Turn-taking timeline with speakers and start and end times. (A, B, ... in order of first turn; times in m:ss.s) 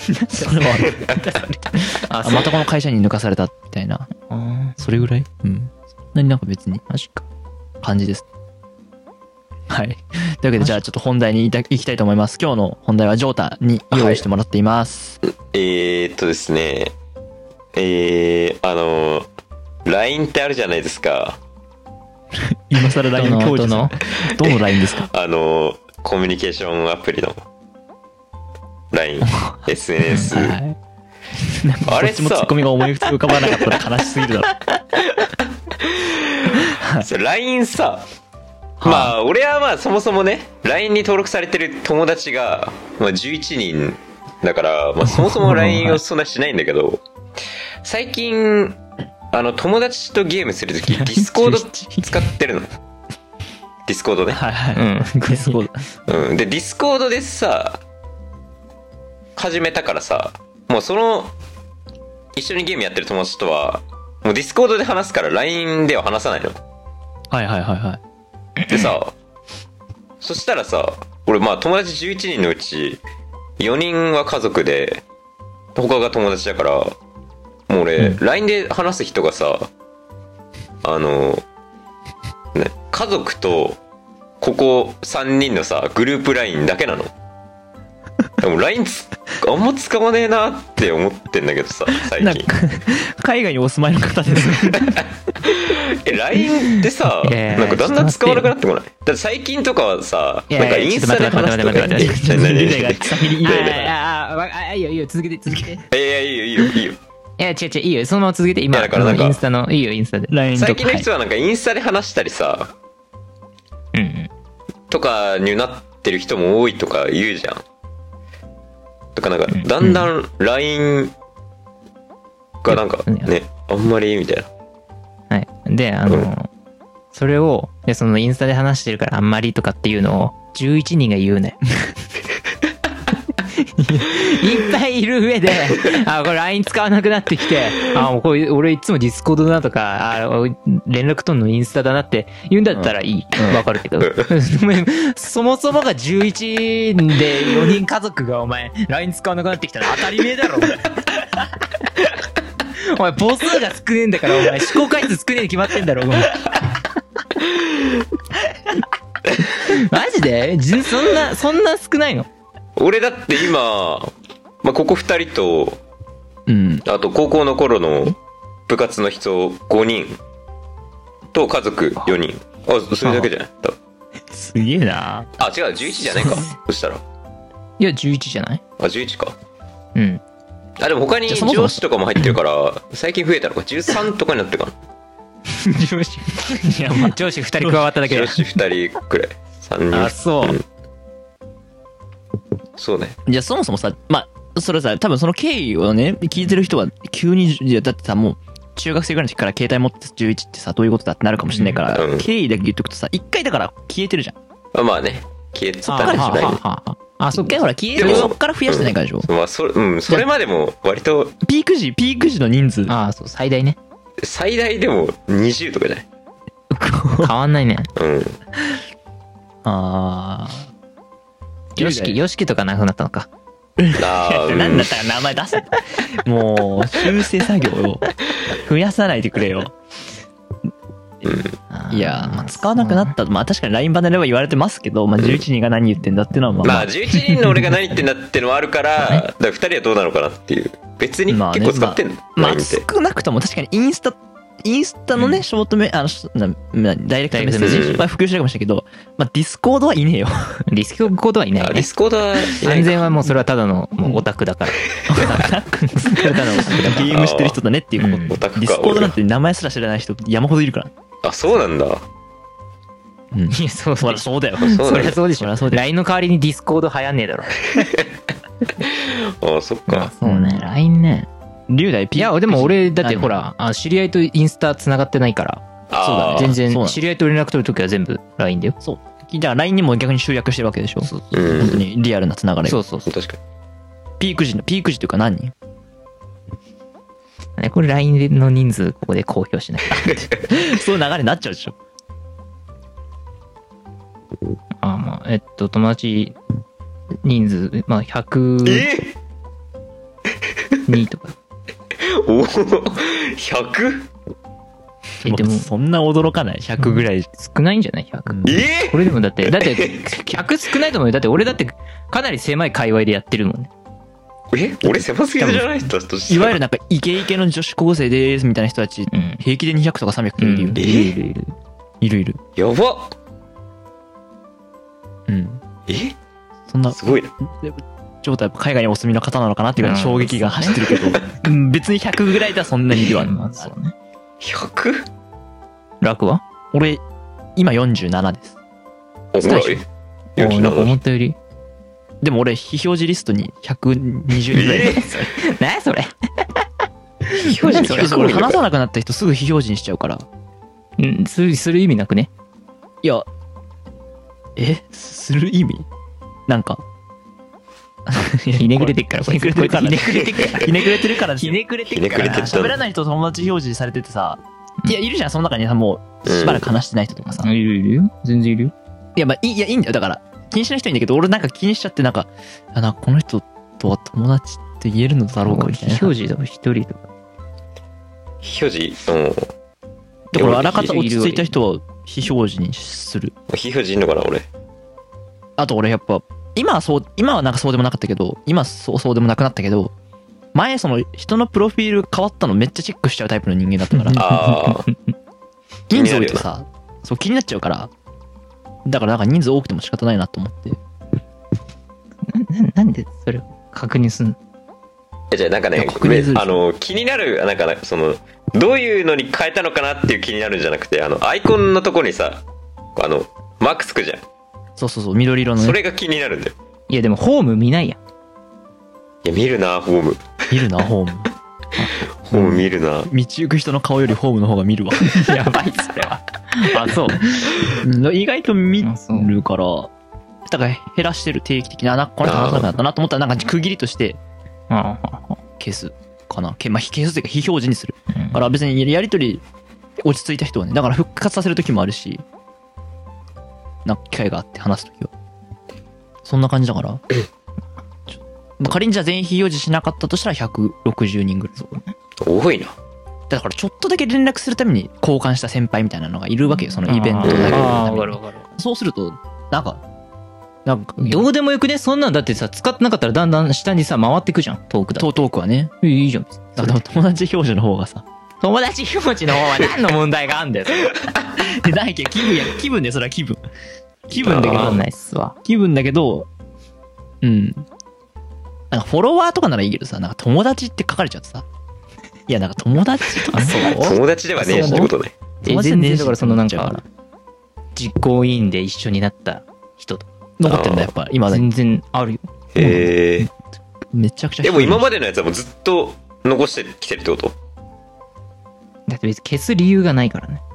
0:00.2-0:01.2 A
0:00.3-0:02.6 B
0:01.8-0:04.1 A
0:04.2-0:04.8 B
0:04.8-0:06.8 A
0:06.9-0:07.2 B
0:07.8-0:08.3 A
0:09.7-0:15.2 A
0:10.6-0:10.8 B
0:13.9-0:14.2 C
0:15.2-0:16.9 C
0:17.7-0:19.3 C
0:19.8-0:21.4 C
0:22.4-0:25.1 A
0:23.2-0:24.0 B
0:24.4-0:27.4 C
0:28.9-0:30.6 C
0:29.2-0:30.8 A
0:31.4-0:34.6 A
0:31.9-0:32.6 C
0:35.4-0:38.1 C
0:36.5-0:37.1 A
0:38.8-0:39.2 A
0:38.8-0:47.0 C
0:45.0-0:46.0 A
0:47.8-0:48.8 C
0:49.3-0:52.7 C
0:50.9-0:52.3 A
0:53.9-0:54.4 C
0:54.3-0:55.9 A
0:54.8-0:55.6 B
0:56.1-0:57.8 C
0:59.4-1:01.3 C
1:02.3-1:06.6 C
1:07.3-1:08.0 A
1:08.6-1:09.0 B
1:08.7-1:09.1 C
1:10.2-1:13.0 C
1:13.6-1:15.0 C
1:15.8-1:17.0 C
1:17.7-1:19.7 C
1:20.8-1:21.4 C
1:22.5-1:23.8 C
1:24.4-1:27.1 C
1:28.4-1:32.5 C
1:32.1-1:35.0 A
1:34.8-1:43.9 C
1:37.2-1:38.5 B
1:40.5-1:42.2 B
1:41.3-1:43.9 A
1:43.4-1:45.8 B
1:45.9-1:47.0 C
1:47.4-1:50.3 B
1:48.7-1:49.4 C
1:50.3-1:51.1 A
1:50.6-1:52.7 C
1:53.9-1:54.3 B
1:54.9-1:57.6 C
1:59.2-2:01.1 C
1:59.5-2:00.0 B
2:02.6-2:04.5 C
2:02.7-2:03.3 B
2:05.3-2:06.5 B
2:07.1-2:11.6 B
2:13.8-2:14.1 A
2:14.0-2:30.8 B
2:22.7-2:23.6 A
2:24.0-2:24.3 C
2:32.7-2:36.4 B
2:37.6-2:38.0 C
2:39.6-2:42.3 B
2:42.8-2:45.8 C
2:46.5-2:46.8 A
2:46.8-2:48.2 C
2:48.7-2:50.2 C
2:51.3-2:53.8 C
2:54.3-2:55.4 A
2:55.4-2:57.0 C
2:56.0-2:56.5 A
2:57.8-2:58.6 B
2:58.8-2:59.4 C
3:00.0-3:00.2 B
3:00.8-3:04.8 C
3:01.3-3:01.8 A
3:05.6-3:08.4 B
3:06.4-3:07.8 A
3:08.0-3:10.6 C
3:09.9-3:10.6 B
3:12.8-3:13.2 C
3:13.3-3:24.4 A
3:21.5-3:21.8 B
3:21.9-3:22.3 C
3:24.7-3:26.6 C
3:25.9-3:28.3 B
3:26.0-3:26.5 A
3:27.3-3:29.3 A
3:28.0-3:31.4 C
3:31.4-3:32.9 A
3:32.9-3:33.8 B
3:34.2-3:36.1 C
3:36.7-3:37.3 A
3:37.2-3:37.9 B
3:38.0-3:38.4 C
3:39.6-3:40.7 A
3:41.8-3:43.3 B
3:41.8-3:42.2 A
3:43.8-3:49.8 A
3:44.0-3:44.9 C
3:51.2-3:51.6 C
3:51.7-3:53.2 B
3:51.9-3:57.6 A
3:56.6-4:02.8 C
3:59.0-3:59.2 B
4:01.3-4:10.6 A
4:07.3-4:07.9 B
4:07.6-4:08.0 C
4:10.7-4:11.9 B
4:11.6-4:13.1 C
4:12.4-4:14.8 B
4:15.0-4:15.4 C
4:15.1-4:20.9 A
4:15.8-4:17.1 B
4:17.0-4:17.6 C
4:18.0-4:18.4 B
4:18.1-4:19.2 C
4:21.2-4:22.0 C
4:23.3-4:25.8 A
4:23.5-4:27.6 B
4:24.6-4:25.2 C
4:27.8-4:28.1 C
4:28.8-4:30.1 C
4:29.9-4:31.3 B
4:30.2-4:30.7 A
4:31.7-4:33.4 A
4:32.2-4:35.6 B
4:35.9-4:36.6 C
4:36.0-4:37.0 A
4:36.3-4:38.8 B
4:38.8-4:42.8 A
4:41.0-4:41.6 B
4:41.3-4:41.8 C
4:42.7-4:43.1 B
4:43.1-4:43.4 C
4:44.2-4:45.5 A
4:47.6-4:50.3 B
4:50.0-4:51.8 A
4:54.8-4:56.4 B
4:57.2-4:58.9 B
4:58.6-4:59.2 C
5:00.9-5:01.4 B
5:02.0-5:04.1 C
5:05.2-5:05.7 B
5:05.2-5:07.3 A
5:06.8-5:13.7 B
5:08.3-5:08.6 A
5:08.4-5:10.2 C
5:14.5-5:16.6 C
5:14.8-5:21.0 A
5:19.1-5:19.4 B
5:20.4-5:21.5 B
5:20.8-5:21.2 C
5:22.0-5:22.4 A
5:22.6-5:23.2 C
5:25.3-5:25.6 A
5:25.9-5:26.2 C
5:26.7-5:33.7 A
5:26.9-5:27.3 C
5:29.8-5:31.0 B
5:33.0-5:33.9 B
5:34.4-5:35.1 C
5:36.0-5:36.4 B
5:36.7-5:37.0 A
5:37.6-5:38.6 A
5:39.3-5:39.8 C
5:39.5-5:39.8 B
5:40.4-5:41.0 C
5:40.4-5:41.4 B
5:42.2-5:45.3 A
5:44.5-5:45.2 C
5:45.4-5:46.6 B
5:47.3-5:48.2 B
5:47.4-5:48.6 C
5:47.7-5:50.3 A
5:51.0-5:52.3 B
5:54.6-5:55.9 A
5:56.5-5:56.8 A
5:58.1-6:07.5 A
5:58.6-6:00.8 B
6:00.4-6:00.7 C
6:01.3-6:02.4 B
6:01.9-6:02.8 C
6:06.2-6:06.7 C
6:07.3-6:08.7 B
6:09.2-6:16.1 A
6:15.4-6:17.1 B
6:18.4-6:19.5 C
6:20.3-6:23.3 A
6:20.4-6:21.0 C
6:20.4-6:21.6 B
6:23.5-6:24.5 C
6:25.6-6:29.9 A
6:30.5-6:34.2 A
6:34.1-6:34.9 B
6:34.1-6:34.9 C
6:35.9-6:37.9 A
6:35.9-6:36.5 C
6:38.9-6:40.8 A
6:42.3-6:44.4 B
6:45.3-6:52.4 C
6:45.8-6:46.6 A
6:53.0-6:54.2 C
6:54.8-6:55.8 A
6:55.6-6:56.6 C
6:56.9-6:58.0 B
6:59.2-7:00.3 C
7:00.5-7:01.3 A
7:01.8-7:02.0 B
7:02.0-7:03.1 C
7:02.3-7:05.4 A
7:05.1-7:07.2 B
7:07.3-7:09.9 A
7:08.8-7:09.4 B
7:10.5-7:14.2 A
7:12.2-7:12.7 C
7:14.7-7:15.4 B
7:15.6-7:19.4 A
7:18.1-7:18.4 B
7:20.0-7:22.2 A
7:23.8-7:25.1 A
7:26.2-7:27.0 A
7:28.6-7:31.8 A
7:32.2-7:32.7 C
7:33.3-7:39.8 A
7:36.8-7:38.5 B
7:37.2-7:37.8 C
7:40.6-7:41.3 A
7:41.0-7:45.1 B
7:45.0-7:45.7 A
7:45.8-7:46.8 B
7:46.6-7:48.0 A
7:48.4-7:51.0 B
7:51.3-7:53.4 A
7:54.1-7:54.8 A
7:54.2-7:54.8 C
7:54.3-7:55.4 B
7:55.4-7:56.3 A
7:57.2-7:57.7 A
7:58.7-8:01.4 A
8:02.3-8:04.9 A
8:03.3-8:04.9 B
8:03.5-8:05.2 C
8:05.4-8:06.8 B
8:05.4-8:06.8 A
8:07.8-8:10.1 B
8:10.4-8:11.5 A
8:10.5-8:10.9 C
8:11.3-8:12.3 B
8:12.5-8:13.3 C
8:12.6-8:13.3 A
8:13.9-8:14.9 A
8:14.4-8:17.4 C
8:18.9-8:20.4 B